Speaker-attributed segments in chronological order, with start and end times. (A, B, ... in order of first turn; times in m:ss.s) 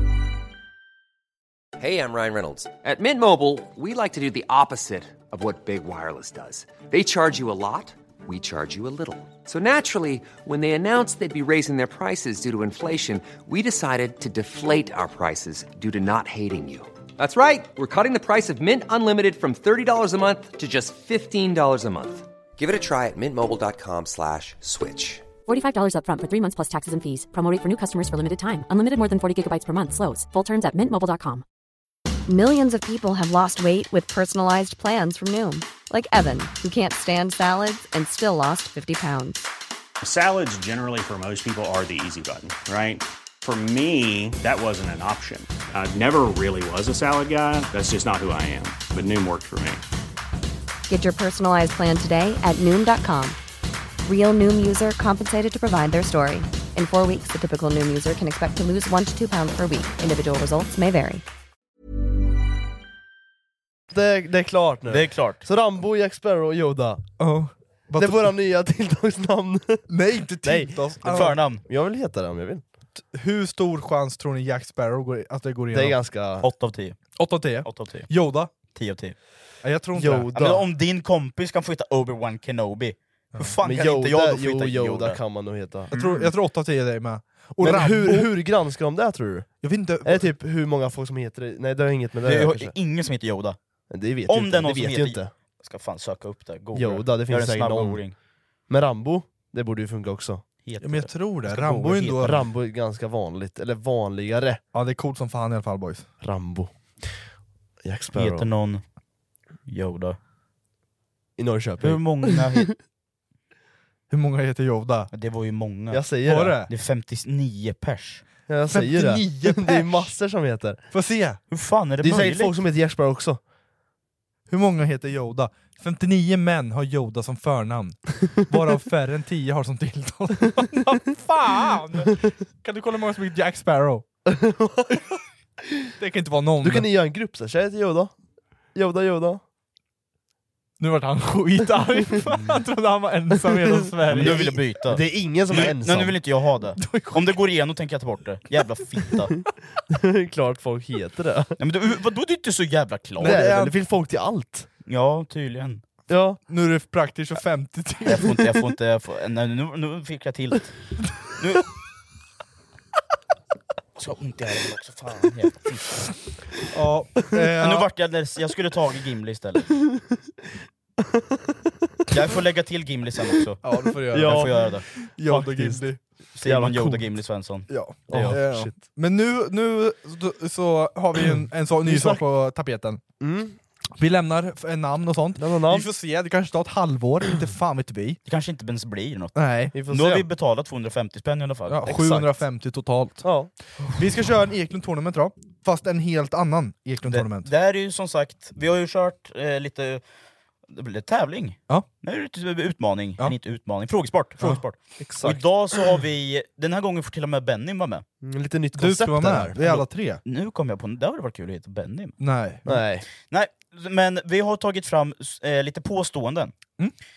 0:01.8-0:25.3 A
0:25.4-0:31.4 B
0:32.3-0:39.5 C
0:40.0-0:49.8 D
0:50.9-0:53.4 C
0:54.0-1:01.2 C
1:03.9-1:07.0 E
1:04.9-1:05.4 F
1:07.2-1:08.3 G
1:08.0-1:09.9 E
1:09.9-1:11.4 G
1:10.4-1:12.6 E
1:11.0-1:11.6 F
1:13.0-1:16.0 G
1:15.7-1:16.5 E
1:16.4-1:17.0 F
1:17.2-1:18.5 G
1:17.6-1:18.1 F
1:18.7-1:19.2 F
1:19.6-1:20.3 G
1:19.9-1:20.6 E
1:20.3-1:25.2 F
1:23.6-1:26.0 E
1:25.9-1:28.3 G
1:25.9-1:26.2 F
1:27.6-1:32.7 E
1:29.6-1:30.3 G
1:32.2-1:33.6 F
1:33.9-1:35.3 E
1:34.3-1:38.1 F
1:36.7-1:38.0 E
1:38.7-1:40.4 E
1:40.6-1:42.4 F
1:40.8-1:42.4 G
1:42.2-1:44.6 E
1:44.7-1:46.1 G
1:46.2-1:46.7 E
1:47.8-1:48.4 E
1:48.1-1:48.8 F
1:49.7-1:50.2 F
1:51.4-1:52.7 E
1:51.8-1:52.7 F
1:54.1-1:55.1 G
1:55.1-1:56.1 F
1:55.9-1:56.6 E
1:56.2-1:56.7 G
1:56.7-1:58.2 F
1:58.5-2:00.8 E
1:58.7-2:00.1 G
2:00.9-2:01.4 G
2:01.5-2:02.5 F
2:02.0-2:03.4 E
2:04.5-2:14.0 G
2:14.2-2:15.0 E
2:16.0-2:16.9 G
2:16.6-2:18.1 E
2:18.7-2:19.4 E
2:20.8-2:24.5 G
2:23.5-2:26.2 E
2:24.1-2:29.4 F
2:26.8-2:27.4 G
2:29.9-2:31.6 E
2:31.6-2:33.5 F
2:33.2-2:33.7 G
2:33.2-2:34.7 E
2:34.9-2:35.8 F
2:36.1-2:36.4 E
2:36.5-2:38.3 G
2:38.0-2:40.8 F
2:41.4-2:41.6 F
2:44.0-2:46.1 F
2:46.7-2:47.9 G
2:47.6-2:49.7 F
2:52.1-2:53.6 F
2:53.6-2:56.0 G
2:54.1-2:54.7 E
2:54.1-2:54.8 F
2:55.2-2:55.8 E
2:56.4-2:58.4 F
2:56.4-2:57.0 E
2:57.7-3:03.0 G
2:58.1-2:58.8 E
3:01.8-3:02.2 E
3:03.2-3:03.6 E
3:04.0-3:08.2 G
3:05.4-3:05.9 E
3:08.2-3:09.4 F
3:09.3-3:09.7 G
3:09.7-3:10.3 E
3:09.9-3:11.9 F
3:11.7-3:13.2 G
3:11.8-3:12.3 E
3:13.2-3:13.5 E
3:13.9-3:17.5 G
3:17.1-3:20.0 F
3:20.7-3:28.0 F
3:25.0-3:25.4 E
3:28.2-3:29.8 E
3:28.7-3:30.2 G
3:30.2-3:32.2 F
3:32.2-3:32.8 G
3:32.6-3:33.0 E
3:33.2-3:36.5 F